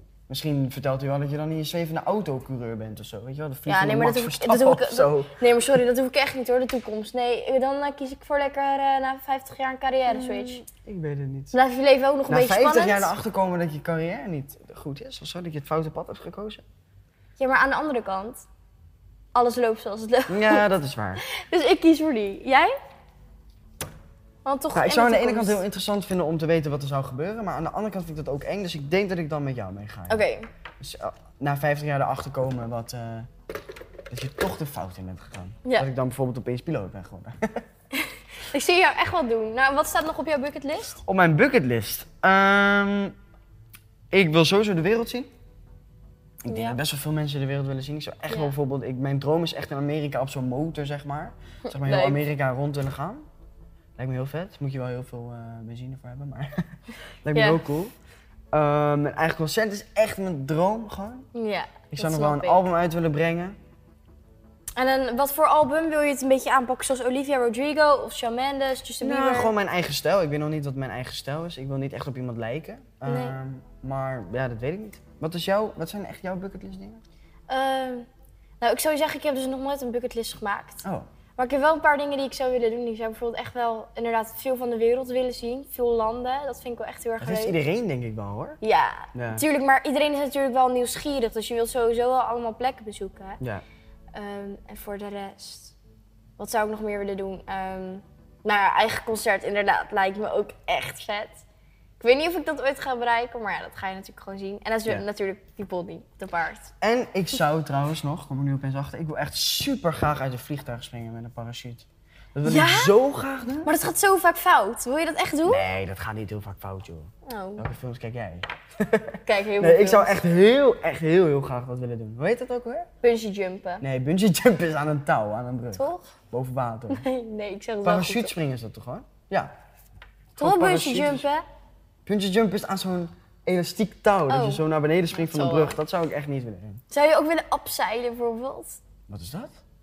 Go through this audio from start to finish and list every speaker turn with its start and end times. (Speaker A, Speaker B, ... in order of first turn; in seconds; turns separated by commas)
Speaker A: 0.3-5.4, Speaker B: 3.7-10.6, Speaker A: 10.1-11.5, Speaker B: 11.5-13.1, Speaker A: 12.3-16.6, Speaker B: 17.4-18.5, Speaker B: 19.3-20.7, Speaker A: 20.3-21.2, Speaker B: 21.2-22.8, Speaker B: 24.4-25.6, Speaker A: 24.7-30.2, Speaker B: 30.1-30.5, Speaker A: 30.8-33.3, Speaker A: 34.1-37.5, Speaker B: 37.9-41.0, Speaker A: 41.0-43.1, Speaker A: 44.1-45.3, Speaker A: 46.4-53.3, Speaker B: 46.5-46.8, Speaker B: 51.6-52.2, Speaker A: 54.0-56.5, Speaker A: 57.2-57.9, Speaker B: 57.3-57.6, Speaker A: 58.5-61.2, Speaker B: 61.3-62.6, Speaker A: 61.9-63.6, Speaker B: 64.8-69.5, Speaker A: 69.0-77.0, Speaker B: 73.0-73.4, Speaker B: 77.5-78.1, Speaker B: 78.6-80.8, Speaker B: 81.4-87.6, Speaker A: 87.2-88.6, Speaker B: 88.6-93.4, Speaker A: 89.1-89.5, Speaker B: 94.1-95.8, Speaker B: 96.4-101.4, Speaker B: 102.0-106.7, Speaker A: 106.8-113.8, Speaker B: 112.4-113.0, Speaker B: 113.6-115.6, Speaker A: 115.5-122.9, Speaker B: 117.2-117.6, Speaker B: 119.2-120.1, Speaker B: 123.0-123.8, Speaker A: 123.8-127.0, Speaker B: 125.7-126.1, Speaker B: 126.9-128.3, Speaker A: 127.8-129.5, Speaker A: 130.4-131.2, Speaker B: 130.4-131.4, Speaker A: 132.1-136.8, Speaker B: 134.3-135.8, Speaker B: 136.9-138.8, Speaker A: 139.1-139.6